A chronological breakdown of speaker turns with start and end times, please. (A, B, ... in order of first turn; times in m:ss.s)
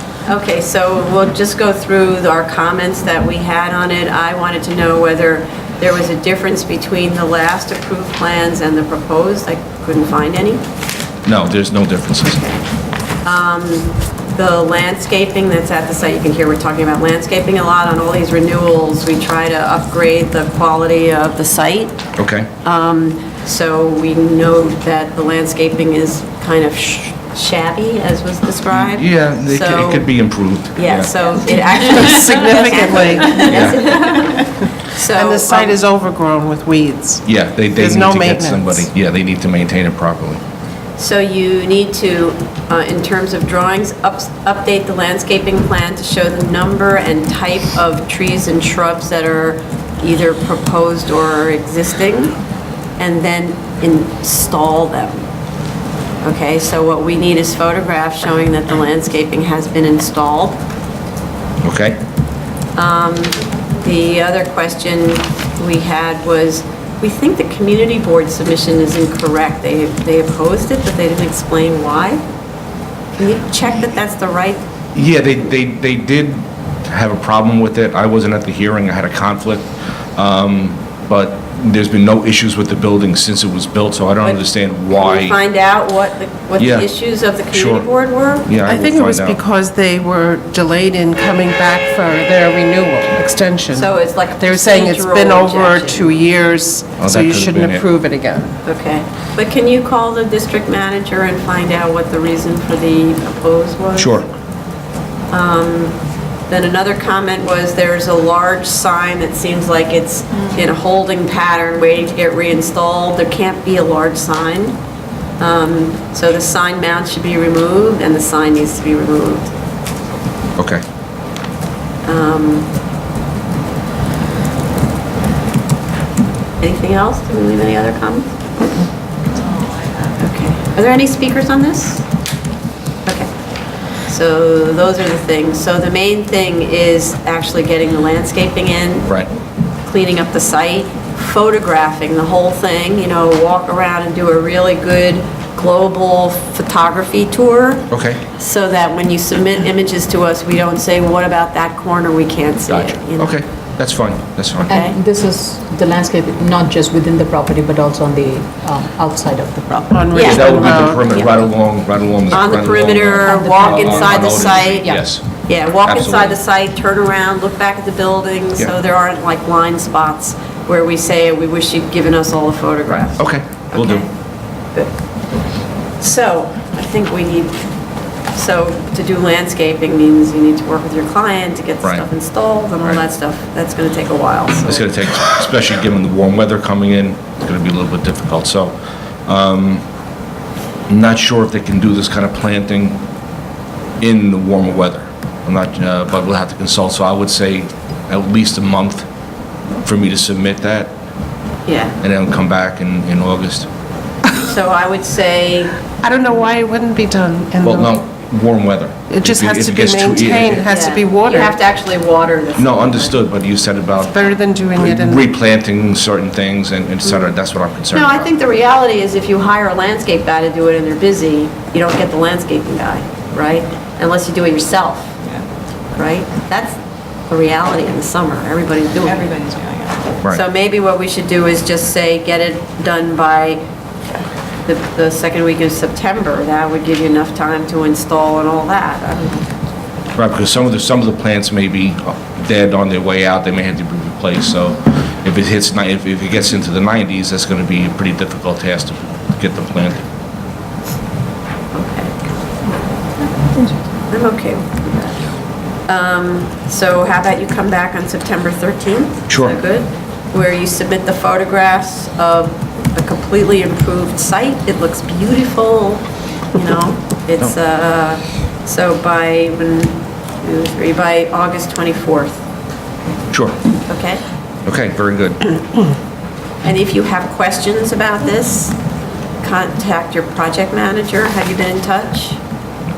0:00.2-0:10.6 A
0:11.3-0:12.4 B
0:12.3-0:12.6 A
0:13.2-0:22.0 A
0:22.2-0:22.5 B
0:22.6-0:30.1 A
0:28.7-0:31.1 B
0:30.8-0:35.8 A
0:31.4-0:34.3 C
0:33.5-0:34.2 B
0:35.0-0:38.9 C
0:37.3-0:40.4 B
0:41.0-0:52.4 A
0:53.0-0:55.3 A
0:56.2-1:00.6 A
1:01.6-1:02.0 B
1:02.8-1:12.2 A
1:13.2-1:14.6 A
1:15.0-1:25.4 B
1:24.2-1:28.5 A
1:26.6-1:27.0 B
1:27.5-1:29.4 B
1:28.6-1:38.6 C
1:33.7-1:36.1 A
1:37.0-1:37.8 B
1:38.6-1:44.3 A
1:44.0-1:44.3 B
1:45.3-1:46.0 A
1:46.5-1:54.8 A
1:55.4-1:59.5 A
2:00.6-2:00.8 B
2:02.1-2:02.7 A
2:06.6-2:08.4 A
2:10.0-2:12.1 A
2:14.1-2:19.1 A
2:19.8-2:33.4 A
2:27.9-2:28.2 B
2:32.7-2:34.7 B
2:34.7-2:41.1 D
2:34.7-2:35.0 A
2:39.9-2:41.0 C
2:40.1-2:41.5 A
2:40.1-2:46.4 B
2:42.3-2:54.1 A
2:43.2-2:45.0 D
2:53.0-2:54.0 B
2:56.0-2:57.6 A
2:58.3-3:04.9 A
3:04.6-3:09.8 B
3:10.9-3:13.0 B
3:14.0-3:19.1 B
3:19.8-3:21.0 B
3:21.7-3:22.0 A
3:22.0-3:23.7 B
3:24.3-3:25.8 A
3:26.0-3:28.0 C
3:27.6-3:30.7 B
3:29.1-3:31.6 C
3:30.6-3:33.2 A
3:32.6-3:34.2 B
3:34.1-3:35.3 C
3:34.8-3:38.3 B
3:37.0-3:37.3 A
3:37.9-3:45.3 A
3:45.9-3:46.8 A
3:47.3-3:53.6 A
3:49.3-3:49.8 D
3:54.7-3:59.4 A
4:00.2-4:10.0 B
4:11.7-4:12.2 A
4:14.1-4:15.2 A
4:15.9-4:32.4 A
4:19.3-4:19.6 B
4:33.3-4:33.6 B
4:33.9-4:34.2 A
4:34.7-4:35.5 B
4:36.6-4:38.8 A
4:39.4-4:42.4 A